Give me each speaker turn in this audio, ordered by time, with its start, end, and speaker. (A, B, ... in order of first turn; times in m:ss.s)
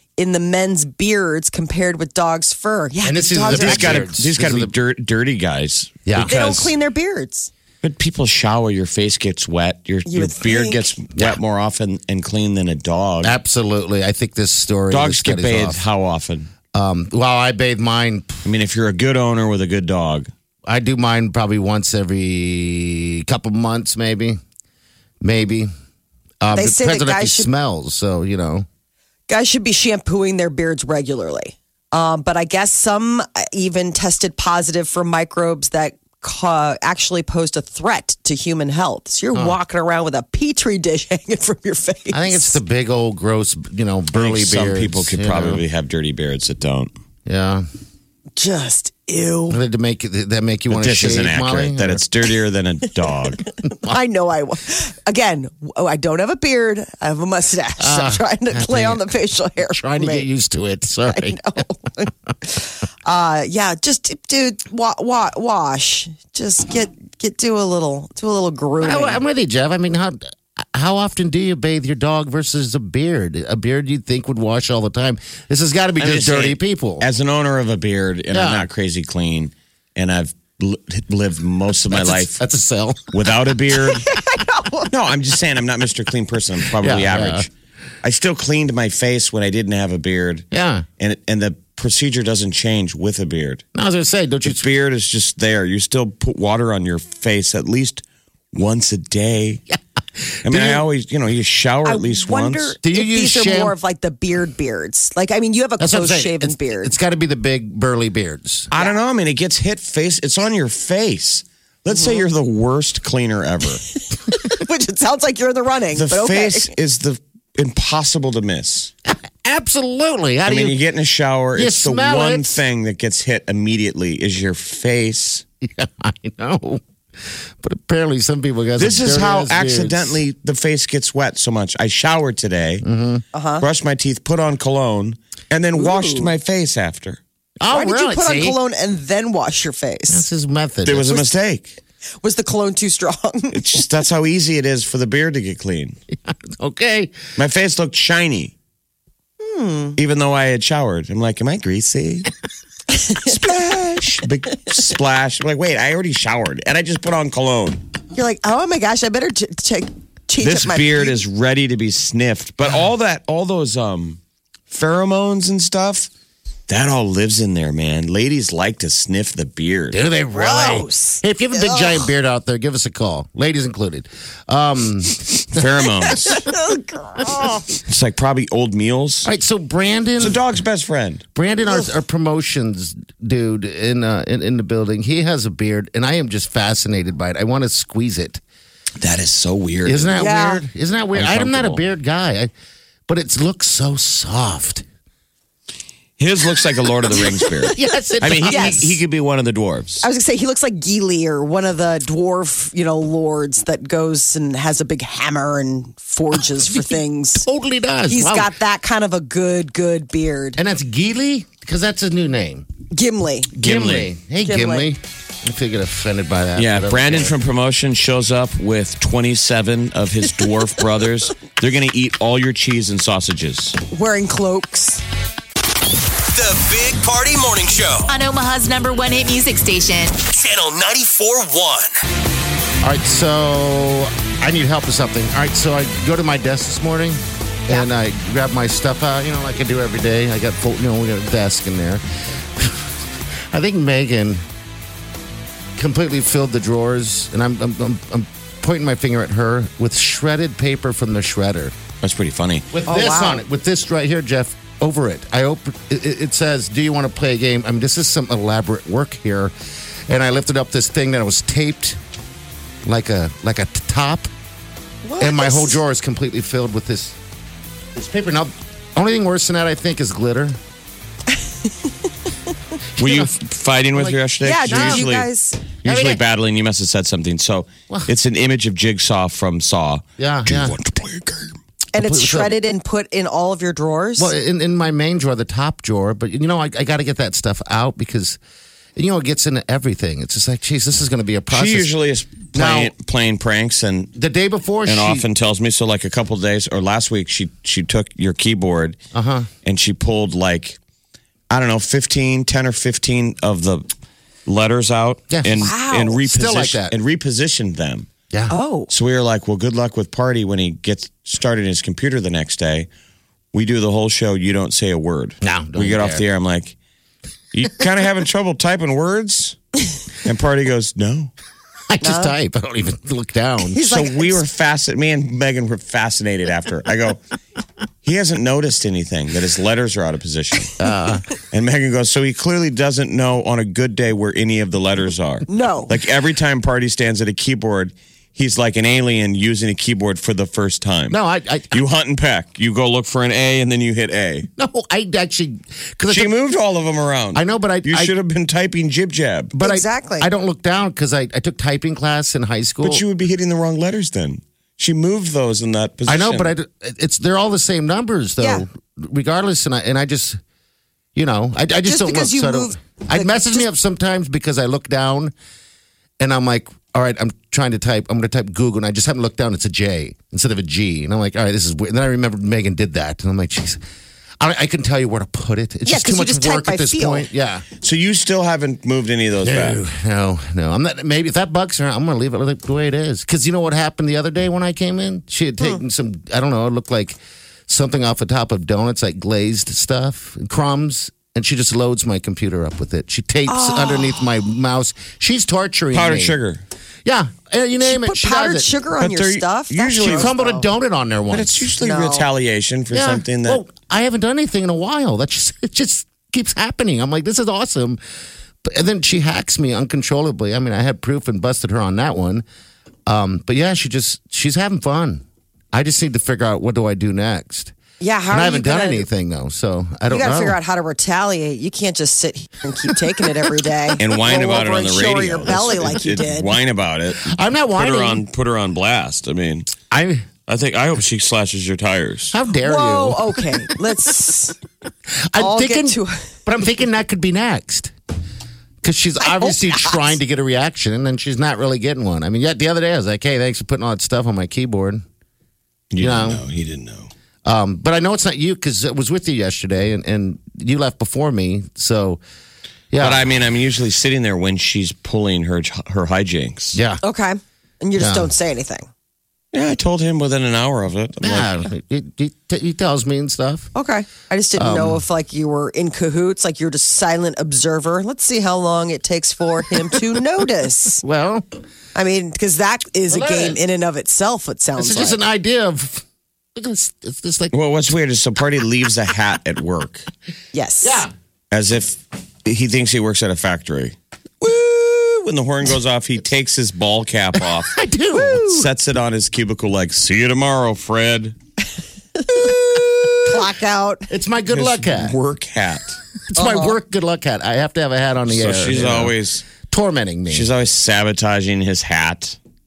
0:00.2-0:04.0 A
0:03.0-0:04.7 B
0:03.5-0:06.7 C
0:06.0-0:06.4 B
0:06.2-0:07.5 A
0:07.8-0:13.4 C
0:10.0-0:10.9 A
0:13.2-0:15.8 B
0:14.9-0:16.5 C
0:16.7-0:18.4 B
0:18.4-0:20.3 C
0:20.6-0:24.4 B
0:25.2-0:25.7 B
0:26.4-0:28.6 B
0:26.5-0:27.5 A
0:29.3-0:42.6 A
0:42.1-0:45.6 B
0:44.1-0:46.9 C
0:47.2-0:47.7 B
0:48.4-0:49.6 A
0:49.5-0:52.0 B
0:50.7-0:53.4 C
0:53.8-1:00.3 A
0:57.8-0:59.0 B
0:59.7-1:01.4 B
1:01.1-1:09.2 A
1:08.8-1:17.0 B
1:16.0-1:22.4 C
1:18.3-1:18.7 B
1:21.9-1:23.1 B
1:23.1-1:24.1 C
1:23.7-1:24.9 A
1:24.9-1:27.5 C
1:26.8-1:27.5 B
1:28.0-1:30.5 C
1:30.5-1:30.8 B
1:31.0-1:33.6 C
1:33.7-1:34.6 B
1:34.4-1:39.6 C
1:40.2-1:40.8 B
1:40.4-1:42.8 C
1:41.8-1:46.9 A
1:42.8-1:43.8 B
1:45.8-1:48.7 B
1:48.7-1:53.8 C
1:51.9-1:52.2 A
1:54.3-1:56.7 A
1:55.9-1:58.9 C
1:59.1-2:00.8 B
2:00.4-2:05.4 C
2:01.5-2:02.6 B
2:05.6-2:10.2 B
2:08.8-2:12.8 C
2:12.8-2:13.2 B
2:13.3-2:13.6 A
2:13.6-2:17.2 C
2:15.8-2:16.3 A
2:17.6-2:18.6 B
2:17.7-2:20.2 A
2:20.1-2:21.2 B
2:20.8-2:21.8 C
2:22.2-2:23.8 A
2:23.5-2:26.0 C
2:26.3-2:27.2 B
2:27.4-2:28.5 C
2:29.4-2:30.0 A
2:30.0-2:32.3 C
2:32.9-2:33.3 A
2:33.1-2:37.8 C
2:38.1-2:41.2 A
2:40.4-2:46.1 C
2:46.7-2:50.0 C
2:49.9-2:56.4 B
2:50.3-2:52.1 A
2:55.5-2:56.4 C
2:56.0-2:57.7 A
2:57.8-2:59.3 C
2:59.2-3:00.4 B
3:00.2-3:01.2 C
3:01.3-3:08.4 B
3:09.0-3:10.2 C
3:09.8-3:12.5 B
3:10.2-3:10.6 A
3:11.1-3:11.8 C
3:13.1-3:14.8 B
3:16.2-3:20.0 C
3:17.3-3:17.7 A
3:17.7-3:19.0 B
3:18.4-3:18.8 A
3:20.0-3:27.4 A
3:27.4-3:28.5 B
3:28.1-3:30.6 A
3:30.6-3:32.6 B
3:32.9-3:33.5 A
3:33.6-3:34.1 C
3:33.6-3:37.3 B
3:34.4-3:34.9 A
3:36.6-3:43.8 C
3:43.9-3:45.0 A
3:46.3-3:48.1 D
3:48.1-3:50.2 E
3:50.2-3:51.9 D
3:52.8-4:03.0 B
4:03.5-4:04.4 B
4:05.8-4:11.7 B
4:12.0-4:12.7 C
4:12.7-4:19.5 B
4:12.8-4:13.4 A
4:20.1-4:22.0 B
4:22.8-4:24.3 B
4:25.0-4:25.8 A
4:25.2-4:27.2 B
4:27.9-4:30.6 B
4:31.6-4:31.9 A
4:33.0-4:33.3 B
4:33.0-4:41.6 C
4:33.9-4:35.1 B
4:34.4-4:35.6 A
4:35.8-4:36.2 B
4:40.2-4:40.8 B
4:41.9-4:44.3 A
4:42.0-4:42.6 B
4:44.2-4:48.4 B
4:49.0-4:51.9 B
4:51.5-4:54.1 C
4:52.5-4:52.9 B
4:54.2-4:55.2 B
4:54.8-4:59.0 C
4:59.1-4:59.5 B
4:59.6-5:00.8 C
5:01.5-5:03.8 C
5:04.5-5:08.1 C
5:05.3-5:06.9 B
5:05.6-5:06.2 A
5:08.5-5:08.9 A
5:08.9-5:12.9 C
5:13.5-5:16.7 C
5:15.4-5:16.2 B
5:17.5-5:19.6 C
5:20.2-5:21.3 C
5:21.9-5:23.8 B
5:22.0-5:22.3 A
5:23.7-5:24.4 A
5:23.8-5:27.2 C
5:28.0-5:30.8 C
5:30.8-5:31.2 B
5:31.5-5:41.2 C
5:35.5-5:35.9 A
5:41.1-5:41.8 B
5:41.7-5:44.5 C
5:44.6-5:46.3 B
5:46.1-5:49.5 C
5:47.3-5:48.1 B
5:49.5-5:53.0 B
5:49.6-5:50.3 A
5:52.8-5:56.5 C
5:56.1-6:00.4 B
6:01.1-6:05.3 B
6:01.8-6:03.7 A
6:06.2-6:13.8 B
6:14.4-6:17.6 B
6:15.8-6:17.3 A
6:17.8-6:19.8 C
6:19.4-6:36.4 B
6:33.5-6:34.2 A
6:35.9-6:36.6 C
6:37.0-6:38.7 B
6:37.8-6:40.7 A
6:39.0-6:40.3 C
6:40.0-6:41.7 B
6:41.3-6:43.6 C
6:41.8-6:42.2 A
6:42.9-6:48.0 B
6:48.6-6:52.4 B
6:53.0-6:57.7 B
6:58.0-6:59.1 A
6:58.3-7:00.6 B
7:00.1-7:06.5 A
7:04.0-7:09.7 C
7:07.2-7:08.2 B
7:09.9-7:10.2 B
7:10.5-7:12.3 C
7:12.3-7:13.4 B
7:12.6-7:14.6 A
7:15.3-7:17.9 B
7:15.4-7:16.3 A
7:18.8-7:25.0 B
7:19.2-7:20.2 A
7:25.9-7:27.1 C
7:26.0-7:26.4 B
7:27.4-7:32.2 B
7:32.9-7:33.3 B
7:33.0-7:36.8 C
7:36.7-7:37.0 B
7:37.0-7:38.9 A
7:38.0-7:38.3 B
7:39.5-7:41.7 C
7:41.2-7:43.7 B
7:43.7-7:51.0 A
7:44.6-7:45.0 B
7:51.0-7:51.4 B
7:51.9-7:55.2 A
7:53.1-7:53.6 B
7:54.8-7:56.0 B
7:56.6-7:57.5 B
7:57.5-8:00.1 C
8:00.5-8:01.0 A
8:00.8-8:01.1 B
8:01.5-8:11.4 C
8:07.4-8:08.7 B
8:12.2-8:14.1 A
8:13.0-8:13.4 B
8:14.1-8:15.2 B
8:14.5-8:16.0 C
8:16.3-8:20.5 B
8:16.4-8:16.8 A
8:18.3-8:19.4 C
8:20.3-8:22.4 C